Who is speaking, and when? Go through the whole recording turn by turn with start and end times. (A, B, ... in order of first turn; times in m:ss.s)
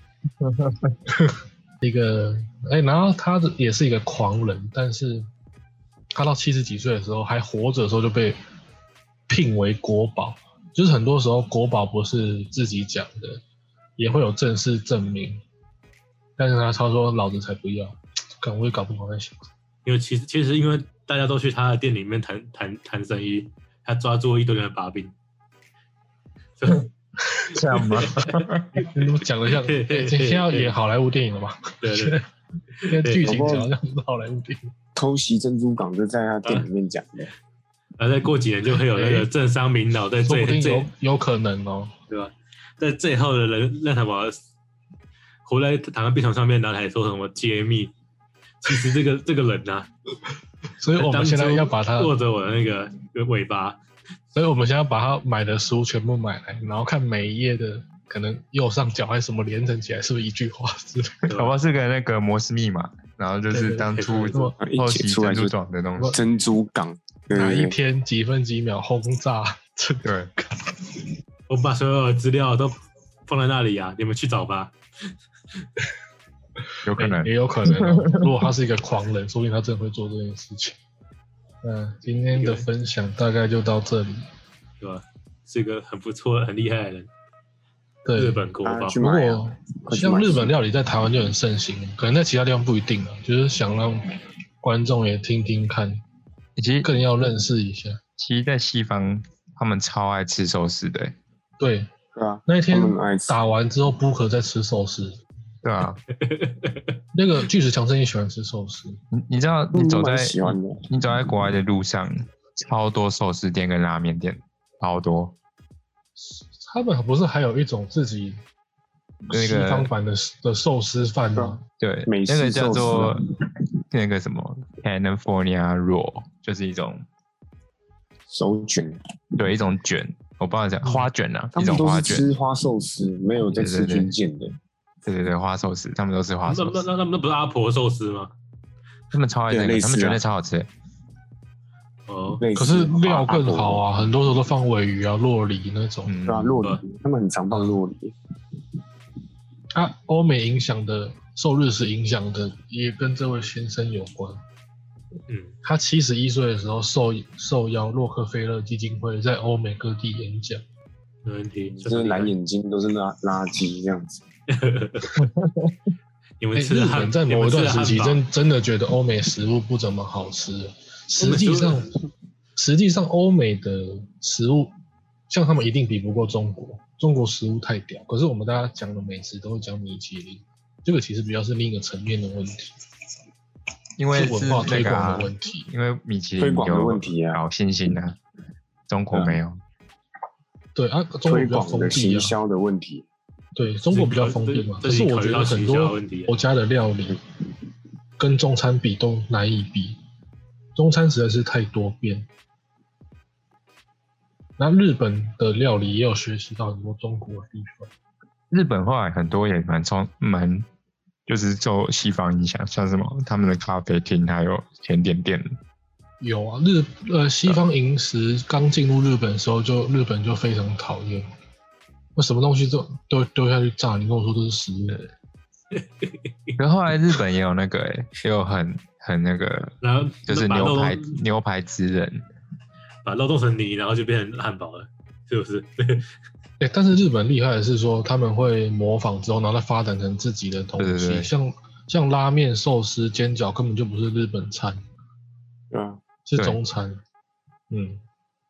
0:00.4-0:01.0 A
0:01.2-0:05.3 B
0:06.1-0:08.4 B
0:09.3-0:13.4 B
0:14.0-0:15.4 B
0:16.4-0:19.4 B
0:19.8-0:25.1 C
0:26.6-0:26.9 C
0:27.5-0:28.7 A
0:28.0-0:30.8 C
0:28.8-0:32.2 B
0:31.8-0:32.2 C
0:32.8-0:33.3 C
0:32.8-0:34.7 B
0:33.2-0:33.7 D
0:34.9-0:37.3 D
0:36.4-0:36.7 C
0:38.0-0:40.9 C
0:38.9-0:39.3 B
0:40.3-0:41.9 B
0:42.1-0:44.4 C
0:45.4-0:47.9 C
0:48.6-0:49.9 C
0:48.6-0:48.9 B
0:50.8-0:52.1 B
0:51.0-0:53.8 C
0:54.3-1:01.3 B
1:01.3-1:01.5 C
1:01.3-1:06.2 A
1:03.5-1:04.5 B
1:03.8-1:04.5 C
1:04.6-1:05.5 D
1:06.1-1:07.7 D
1:07.3-1:10.6 B
1:10.0-1:10.3 A
1:11.5-1:14.7 C
1:16.8-1:18.3 A
1:17.0-1:20.8 B
1:21.6-1:24.2 B
1:22.3-1:22.7 C
1:24.8-1:27.1 C
1:28.0-1:28.4 B
1:28.2-1:29.0 C
1:28.6-1:30.5 D
1:29.0-1:36.0 B
1:36.6-1:36.9 A
1:36.8-1:38.0 B
1:38.2-1:41.2 A
1:41.6-1:41.9 B
1:42.1-1:43.4 D
1:42.4-1:45.2 B
1:45.6-1:46.0 A
1:46.1-1:47.0 C
1:47.1-1:49.0 B
1:49.1-1:55.4 A
1:49.7-1:50.8 D
1:56.2-1:58.4 B
1:59.3-1:59.9 A
1:59.3-2:01.6 B
2:01.4-2:03.2 D
2:01.8-2:03.2 A
2:03.9-2:07.0 A
2:08.3-2:09.0 D
2:09.4-2:12.2 A
2:11.5-2:14.6 D
2:13.5-2:14.1 A
2:15.0-2:16.8 A
2:16.4-2:18.3 C
2:19.1-2:20.7 A
2:19.5-2:20.2 D
2:22.1-2:22.4 C
2:22.4-2:23.8 D
2:22.6-2:26.1 B
2:26.0-2:26.6 A
2:26.2-2:28.1 D
2:29.7-2:34.4 B
2:35.3-2:35.5 C
2:35.6-2:40.6 B
2:41.2-2:42.3 C
2:41.7-2:44.2 D
2:44.5-2:45.2 C
2:45.2-2:45.7 A
2:46.4-2:48.2 C
2:46.6-2:51.9 B
2:51.2-2:51.8 C
2:52.6-2:54.7 B
2:55.3-3:02.7 B
3:04.0-3:08.2 A
3:04.1-3:05.7 B
3:06.4-3:07.4 D
3:08.9-3:09.6 A
3:10.7-3:12.4 B
3:11.3-3:13.0 D
3:13.6-3:17.2 B
3:13.9-3:16.3 C
3:18.2-3:20.0 B
3:20.8-3:22.3 B
3:24.6-3:27.9 B
3:28.5-3:30.6 A
3:31.3-3:35.6 A
3:36.2-3:41.3 B
3:42.2-3:45.0 B
3:45.7-3:46.6 C
3:46.6-3:52.3 A
3:49.8-3:51.2 C
3:53.0-3:56.1 C
3:56.6-4:04.8 B
4:00.8-4:01.3 A
4:05.7-4:06.0 D
4:06.2-4:07.0 B
4:07.7-4:08.0 B